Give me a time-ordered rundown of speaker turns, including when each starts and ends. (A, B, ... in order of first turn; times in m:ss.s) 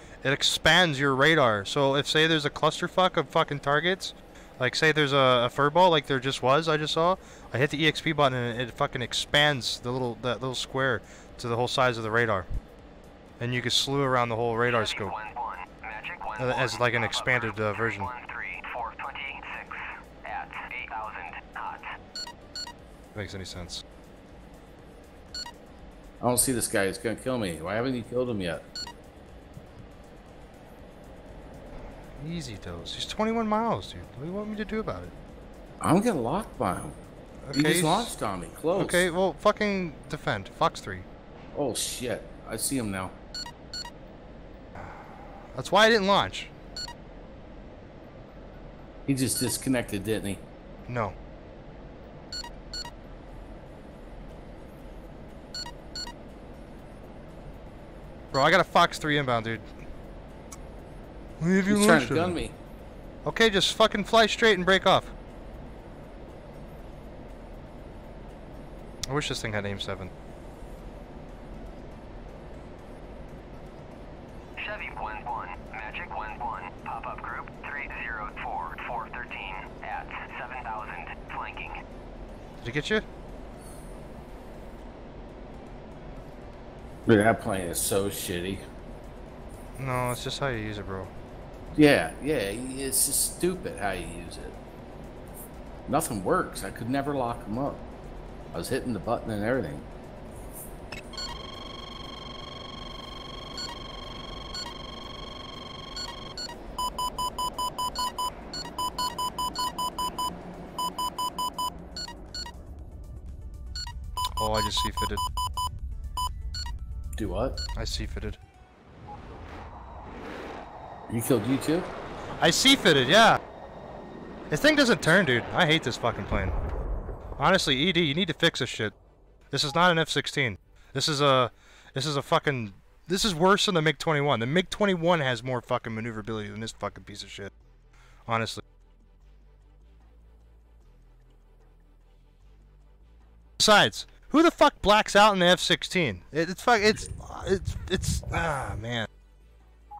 0:00.2-0:12.5 A
0:13.4-0:15.1 A
0:14.7-0:21.9 B
0:16.4-0:18.1 A
0:23.1-0:23.8 A
0:26.2-0:28.6 C
0:32.2-0:35.1 A
0:35.8-0:37.0 C
0:37.4-0:38.1 A
0:37.5-0:39.1 C
0:38.7-0:41.0 A
0:41.5-0:43.1 C
0:44.8-0:46.5 A
0:49.0-0:50.4 C
0:50.9-0:51.1 A
0:58.3-0:59.6 A
1:01.4-1:02.4 A
1:01.7-1:02.6 C
1:03.2-1:05.1 A
1:09.1-1:10.1 A
1:14.6-1:21.8 B
1:22.6-1:23.0 A
1:27.0-1:28.6 C
1:29.8-1:31.1 A
1:31.7-1:34.6 C
1:35.8-1:37.9 C
1:38.5-1:39.8 C
1:54.4-1:55.2 A
1:57.2-1:57.6 C
1:57.8-1:58.4 A
2:01.1-2:01.9 C
2:02.4-2:03.4 A
2:04.5-2:06.6 A
2:07.4-2:08.9 A
2:09.5-2:17.5 A
2:18.3-2:18.6 A
2:23.6-2:29.1 A